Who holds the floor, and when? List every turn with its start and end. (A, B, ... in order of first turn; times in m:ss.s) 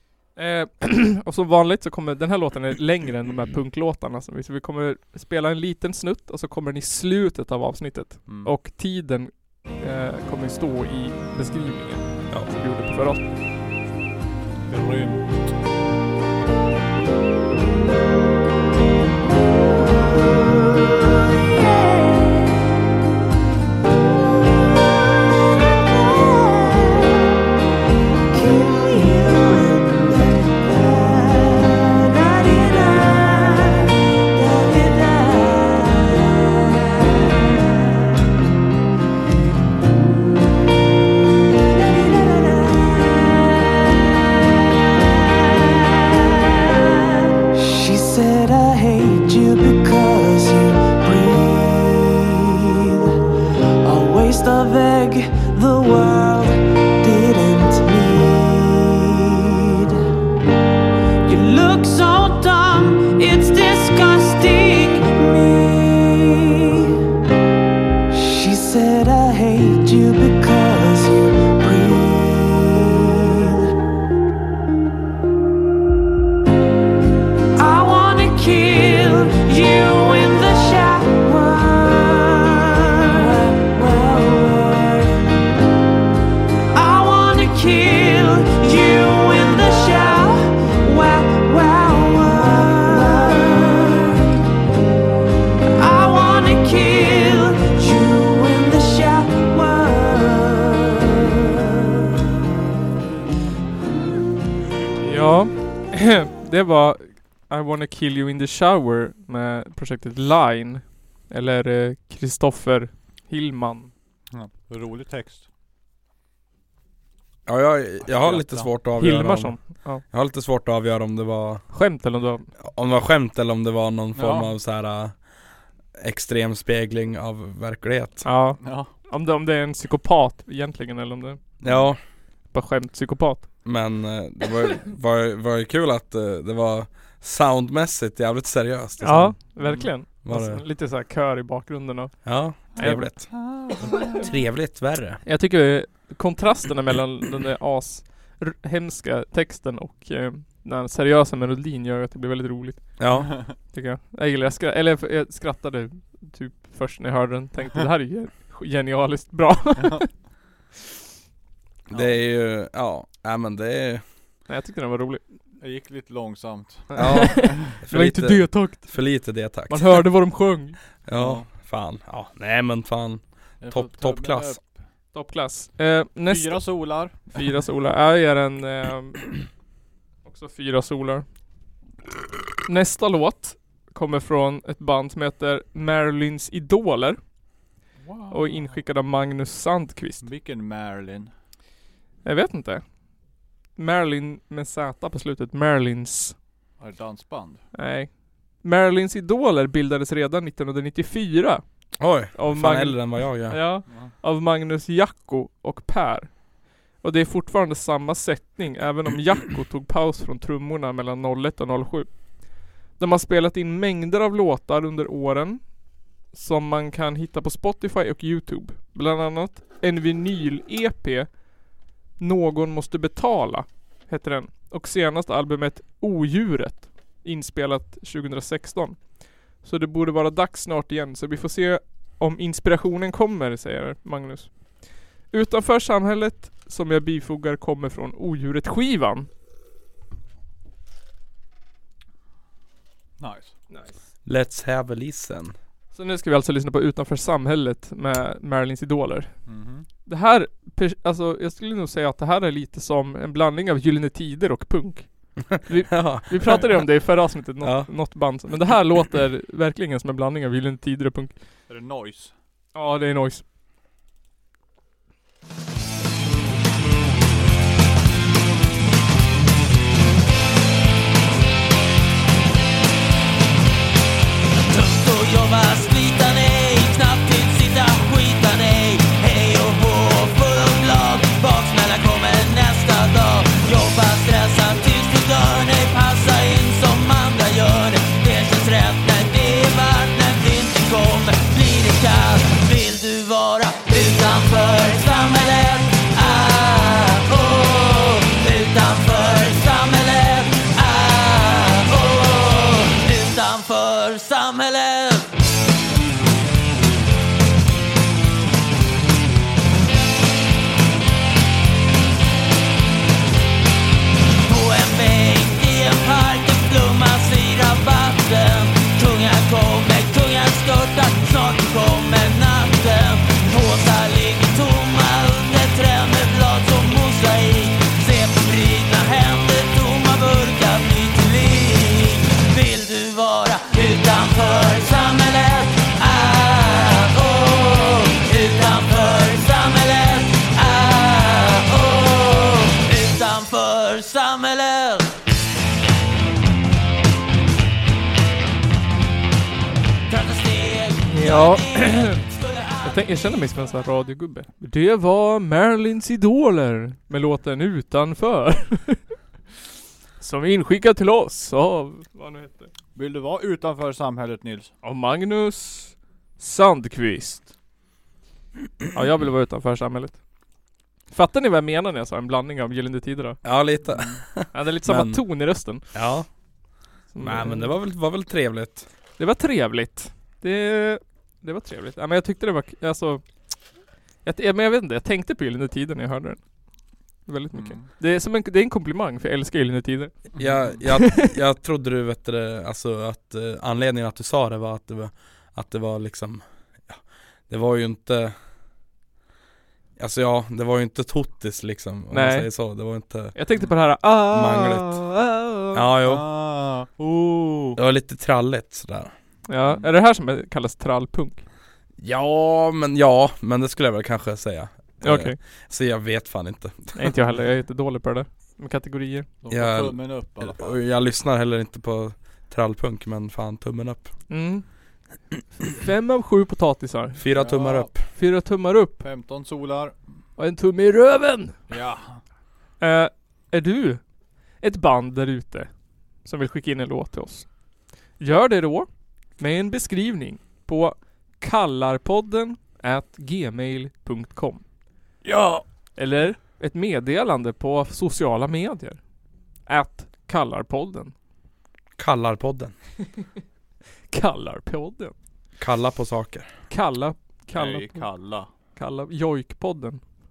0:00.4-0:13.3 A
0:08.3-0:08.5 B
0:14.7-0:15.5 B
0:26.0-0:27.1 C
0:28.3-0:37.6 C
0:41.8-0:43.7 C
0:47.5-0:53.0 C
0:53.8-1:00.0 C
1:01.2-1:06.9 C
1:08.1-1:13.7 C
1:17.6-1:25.5 C
1:26.7-1:34.4 C
1:35.8-1:41.2 C
1:45.0-1:53.9 A
1:54.3-1:55.5 B
1:57.5-2:01.7 D
1:58.0-1:58.7 B
1:59.0-2:00.0 A
2:01.7-2:02.5 A
2:02.6-2:05.2 D
2:04.2-2:04.5 B
2:06.0-2:08.3 D
2:08.2-2:11.4 A
2:08.6-2:08.9 B
2:11.6-2:12.0 D
2:12.5-2:13.5 A
2:13.6-2:20.6 D
2:19.0-2:23.3 A
2:19.6-2:19.9 B
2:22.2-2:25.2 D
2:22.8-2:24.3 B
2:25.2-2:40.1 A
2:33.0-2:33.4 D
2:41.9-2:44.0 D
2:41.9-2:42.2 B
2:44.5-2:45.2 A
2:45.6-2:47.7 B
2:46.9-2:49.0 A
2:47.0-2:50.1 D
2:49.7-2:50.8 A
2:51.1-2:54.6 D
2:51.1-2:51.5 B
2:53.6-2:54.8 B
2:55.1-2:59.4 A
2:56.3-2:57.5 B
3:00.2-3:01.3 A
3:02.7-3:07.2 A
3:08.0-3:08.8 B
3:08.3-3:10.3 A
3:10.2-3:11.3 B
3:12.2-3:12.9 A
3:13.8-3:16.4 A
3:16.8-3:17.6 B
3:17.7-3:21.6 A
3:22.0-3:23.6 D
3:22.3-3:41.7 A
3:23.9-3:24.1 B
3:42.2-3:59.3 A
4:03.2-4:03.6 B
4:03.7-4:04.0 A
4:04.2-4:05.6 D
4:05.9-4:09.5 A
4:09.5-4:09.9 B
4:10.0-4:21.4 A
4:15.5-4:16.9 D
4:17.6-4:17.9 D
4:21.7-4:22.3 B
4:22.8-4:23.4 A
4:34.6-5:05.3 E
5:14.4-5:45.1 E
5:50.1-5:53.0 E
5:51.1-5:52.2 A
5:52.8-5:59.1 A
6:00.2-6:02.7 A
6:03.0-6:04.7 B
6:04.8-6:07.5 A
6:08.9-6:10.2 A
6:11.1-6:13.4 A
6:13.4-6:15.2 D
6:13.9-6:14.2 B
6:14.5-6:15.9 A
6:15.9-6:16.3 D
6:17.1-6:17.8 A
6:17.2-6:18.9 D
6:19.2-6:23.2 A
6:24.2-6:26.4 A
6:27.3-6:30.2 A
6:27.5-6:27.9 B
6:30.4-6:30.8 B
6:30.4-6:38.4 D
6:30.9-6:31.2 A
6:40.0-6:43.4 D
6:42.1-6:42.5 A
6:43.4-6:45.8 A
6:44.3-6:45.0 D
6:45.7-6:46.3 D
6:46.0-6:47.4 B
6:47.2-6:47.8 A
6:47.8-6:49.1 D
6:49.5-6:51.4 A
6:49.6-6:49.9 B
6:52.0-6:57.1 D
6:55.0-6:55.4 A
6:57.0-6:59.3 A
6:59.4-7:00.8 B
6:59.5-7:04.1 D
7:04.3-7:04.6 A
7:05.8-7:07.2 A
7:07.2-7:08.0 D
7:07.3-7:07.9 B
7:08.1-7:09.0 A
7:09.0-7:10.0 B
7:10.4-7:11.6 A
7:11.7-7:12.2 B
7:12.8-7:14.0 A
7:14.6-7:15.7 A
7:16.2-7:17.5 A
7:18.2-7:24.6 A
7:25.2-7:25.6 B
7:26.0-7:29.0 A
7:29.7-7:31.1 A
7:32.0-7:32.8 D
7:34.1-7:35.1 A
7:35.6-7:36.5 D
7:36.7-7:40.0 A
7:37.5-7:38.5 B